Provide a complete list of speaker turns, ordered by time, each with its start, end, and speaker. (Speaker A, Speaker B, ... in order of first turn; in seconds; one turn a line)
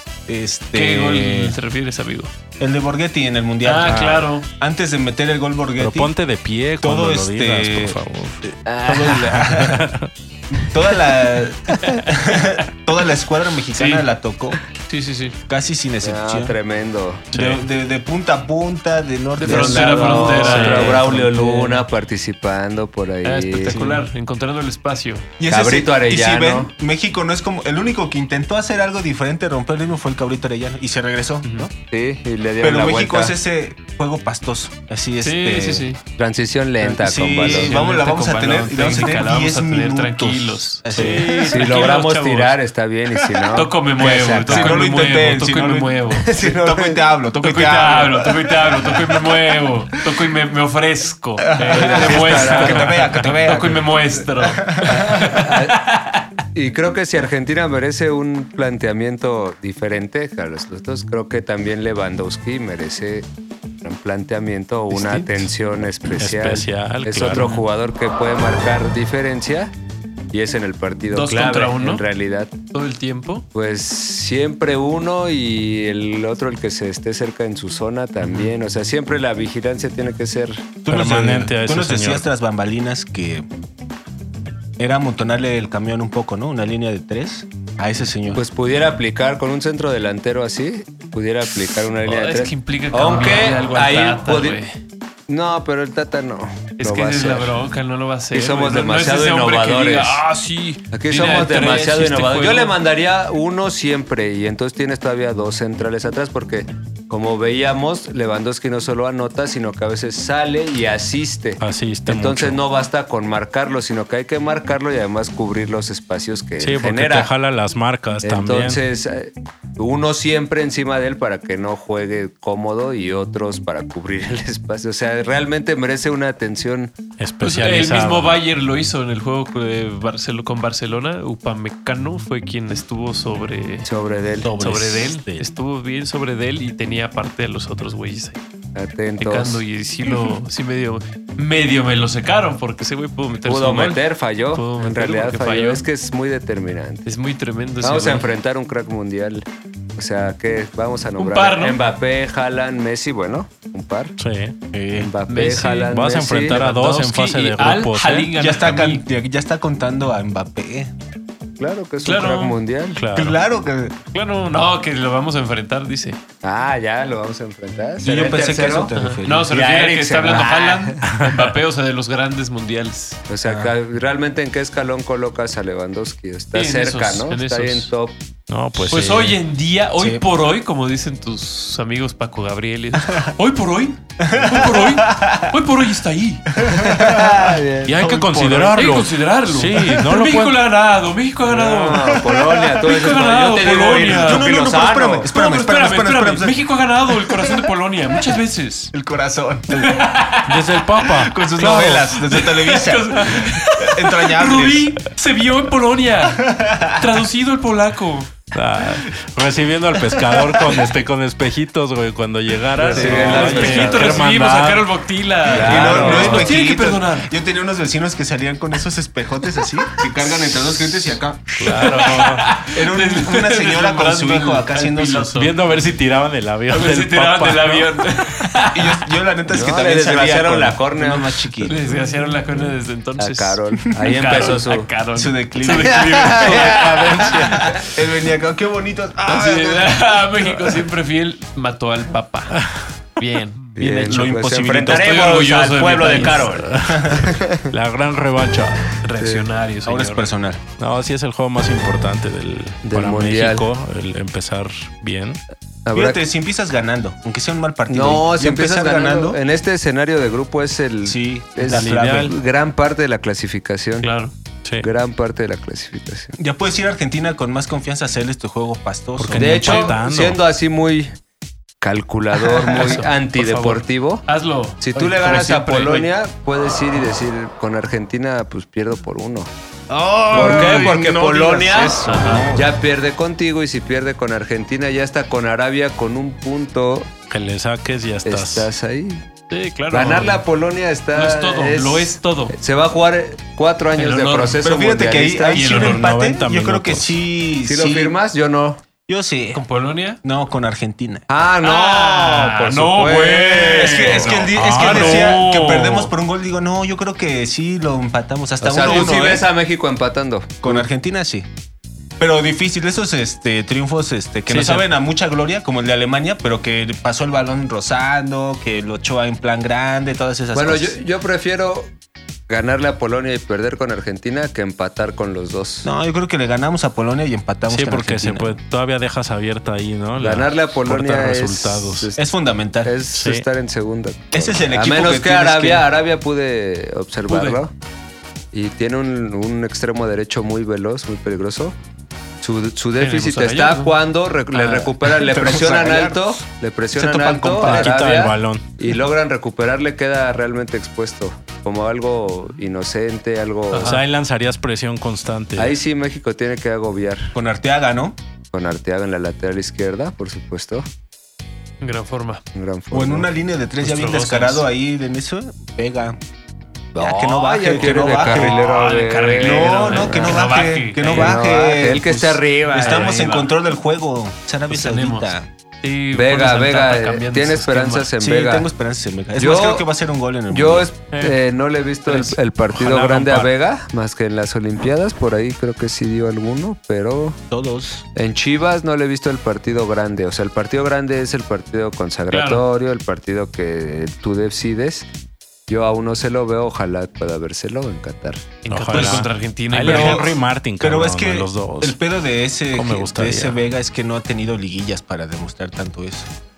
Speaker A: 0.3-1.5
Speaker B: 0.7-2.3
Speaker A: 2.6-6.1
Speaker B: 3.6-4.5
Speaker C: 5.8-10.1
Speaker A: 6.8-8.0
Speaker D: 8.7-9.4
Speaker A: 8.8-9.8
Speaker A: 10.5-14.6
Speaker B: 11.8-12.6
Speaker B: 13.7-14.1
Speaker B: 14.8-15.3
Speaker A: 15.5-16.6
Speaker D: 16.0-17.3
Speaker C: 17.3-17.6
Speaker A: 17.3-21.8
Speaker B: 19.4-21.7
Speaker D: 19.4-23.8
Speaker C: 20.5-21.0
Speaker B: 23.2-25.3
Speaker A: 23.7-24.0
Speaker A: 25.4-31.7
Speaker D: 25.5-26.7
Speaker D: 31.9-33.3
Speaker A: 32.6-35.9
Speaker B: 35.2-36.0
Speaker D: 36.2-37.8
Speaker A: 36.8-41.8
Speaker B: 37.4-42.6
Speaker D: 40.9-44.8
Speaker B: 43.5-46.3
Speaker A: 44.0-49.3
Speaker D: 46.2-47.0
Speaker B: 47.4-56.3
Speaker A: 51.4-55.3
Speaker D: 51.7-53.1
Speaker D: 54.9-55.8
Speaker D: 56.5-63.3
Speaker D: 63.8-69.7
Speaker B: 64.9-65.5
Speaker C: 66.2-67.5
Speaker B: 67.3-67.6
Speaker D: 70.3-72.5
Speaker B: 71.1-72.0
Speaker B: 72.7-73.5
Speaker D: 73.5-80.7
Speaker B: 78.2-78.5
Speaker A: 80.8-83.5
Speaker C: 80.9-82.2
Speaker A: 84.8-88.4
Speaker D: 88.3-94.6
Speaker B: 92.0-94.8
Speaker D: 95.3-97.5
Speaker B: 96.8-102.7
Speaker D: 98.3-100.2
Speaker D: 100.9-117.3
Speaker C: 111.6-112.6
Speaker C: 116.6-118.8
Speaker D: 118.2-126.9
Speaker C: 127.2-128.3
Speaker B: 127.4-133.9
Speaker D: 133.8-134.5
Speaker C: 134.4-135.4
Speaker B: 134.6-138.4
Speaker D: 138.7-139.6
Speaker B: 139.2-144.0
Speaker D: 143.4-147.1
Speaker B: 144.5-145.8
Speaker B: 147.0-148.3
Speaker D: 147.8-154.2
Speaker B: 151.2-151.8
Speaker C: 154.2-154.6
Speaker A: 154.7-155.1
Speaker D: 154.9-156.6
Speaker B: 155.3-159.0
Speaker C: 155.6-158.3
Speaker A: 158.4-160.9
Speaker D: 161.6-163.0
Speaker B: 162.0-162.6
Speaker C: 162.9-163.4
Speaker A: 163.1-163.9
Speaker B: 164.1-166.2
Speaker D: 166.4-168.9
Speaker A: 168.0-169.5
Speaker B: 168.9-173.2
Speaker D: 169.4-171.3
Speaker C: 171.0-171.4
Speaker D: 173.3-178.2
Speaker A: 173.4-173.7
Speaker B: 176.5-177.9
Speaker C: 178.5-179.4
Speaker B: 178.9-186.5
Speaker A: 180.0-180.2
Speaker A: 184.2-185.5
Speaker A: 186.5-188.7
Speaker D: 186.6-188.0
Speaker C: 187.8-190.6
Speaker B: 188.7-192.2
Speaker D: 191.4-195.3
Speaker A: 192.2-192.8
Speaker B: 192.8-194.5
Speaker A: 193.8-197.7
Speaker B: 195.3-198.9
Speaker A: 198.9-200.1
Speaker B: 199.7-208.3
Speaker C: 200.4-201.4
Speaker A: 201.1-204.9
Speaker A: 206.3-207.1
Speaker C: 208.5-214.9
Speaker D: 212.8-214.2
Speaker A: 212.9-214.0
Speaker B: 213.1-217.3
Speaker D: 215.4-216.5
Speaker A: 215.5-221.8
Speaker C: 215.8-216.5
Speaker C: 221.6-222.5
Speaker B: 221.6-225.6
Speaker A: 222.6-225.4
Speaker C: 225.3-228.0
Speaker B: 226.7-229.0
Speaker A: 228.7-231.8
Speaker D: 229.5-231.3
Speaker B: 231.6-237.8
Speaker D: 233.2-234.9
Speaker A: 233.9-234.6
Speaker A: 235.1-240.2
Speaker D: 235.6-237.3
Speaker B: 239.2-242.6
Speaker C: 242.6-242.9
Speaker B: 243.2-243.6
Speaker D: 243.8-247.7
Speaker A: 243.8-245.1
Speaker B: 244.9-246.5
Speaker C: 246.5-248.9
Speaker A: 246.7-247.3
Speaker B: 249.0-250.3
Speaker D: 249.2-249.4
Speaker A: 249.8-250.6
Speaker C: 250.8-255.4
Speaker D: 252.8-253.7
Speaker D: 255.8-256.2
Speaker A: 255.9-259.4
Speaker D: 257.9-264.1
Speaker A: 261.0-262.3
Speaker C: 261.6-262.4
Speaker B: 264.0-264.3
Speaker C: 264.6-264.9
Speaker D: 264.8-266.3
Speaker A: 266.3-269.9
Speaker C: 269.2-270.4
Speaker D: 269.4-271.1
Speaker D: 271.8-274.2
Speaker A: 272.5-273.0
Speaker B: 272.8-276.1
Speaker D: 274.8-279.5
Speaker A: 279.9-282.8
Speaker B: 280.3-280.9
Speaker D: 280.3-287.1
Speaker B: 282.1-282.5
Speaker C: 287.3-288.7
Speaker D: 288.2-289.3
Speaker B: 289.5-290.4
Speaker D: 289.9-295.7
Speaker B: 291.1-292.6
Speaker B: 293.9-294.6
Speaker A: 294.6-298.1
Speaker B: 295.5-296.0
Speaker C: 295.7-297.2
Speaker D: 297.6-298.8
Speaker A: 299.1-299.6
Speaker B: 299.5-300.2
Speaker A: 300.2-301.3
Speaker D: 301.3-304.4
Speaker B: 301.6-306.1
Speaker A: 303.6-309.5
Speaker C: 304.5-305.2
Speaker D: 308.6-310.9
Speaker A: 310.6-311.5
Speaker A: 312.2-321.0
Speaker C: 314.5-314.9
Speaker D: 320.5-321.9
Speaker D: 322.5-325.9
Speaker A: 325.8-328.6
Speaker C: 327.7-332.1
Speaker D: 330.2-332.2
Speaker A: 332.2-332.9
Speaker D: 332.8-337.7
Speaker C: 333.1-333.4
Speaker A: 334.3-335.9
Speaker B: 337.3-337.6
Speaker D: 338.5-341.8
Speaker D: 342.4-354.0
Speaker B: 343.0-343.9
Speaker B: 344.5-344.9
Speaker A: 344.6-346.4
Speaker A: 347.0-347.9
Speaker C: 347.6-348.7
Speaker B: 353.7-354.0
Speaker C: 353.8-355.8
Speaker D: 355.6-357.3
Speaker A: 357.3-358.2
Speaker D: 358.5-360.9
Speaker B: 361.8-362.4
Speaker D: 362.5-363.3
Speaker A: 362.9-366.2
Speaker B: 363.8-364.6
Speaker D: 366.9-370.4
Speaker A: 367.0-368.6
Speaker B: 368.2-371.4
Speaker A: 369.4-375.5
Speaker D: 371.1-373.1
Speaker B: 372.7-373.5
Speaker B: 374.7-378.1
Speaker D: 376.1-378.7
Speaker A: 378.2-380.9
Speaker D: 379.4-379.8
Speaker D: 380.5-387.4
Speaker B: 381.1-381.4
Speaker B: 382.1-382.4
Speaker C: 382.7-383.5
Speaker A: 387.5-388.1
Speaker D: 388.1-395.1
Speaker B: 392.3-392.6
Speaker D: 395.7-398.5
Speaker B: 398.6-400.3
Speaker C: 398.7-402.0
Speaker A: 398.9-399.2
Speaker A: 399.8-406.3
Speaker C: 402.7-403.6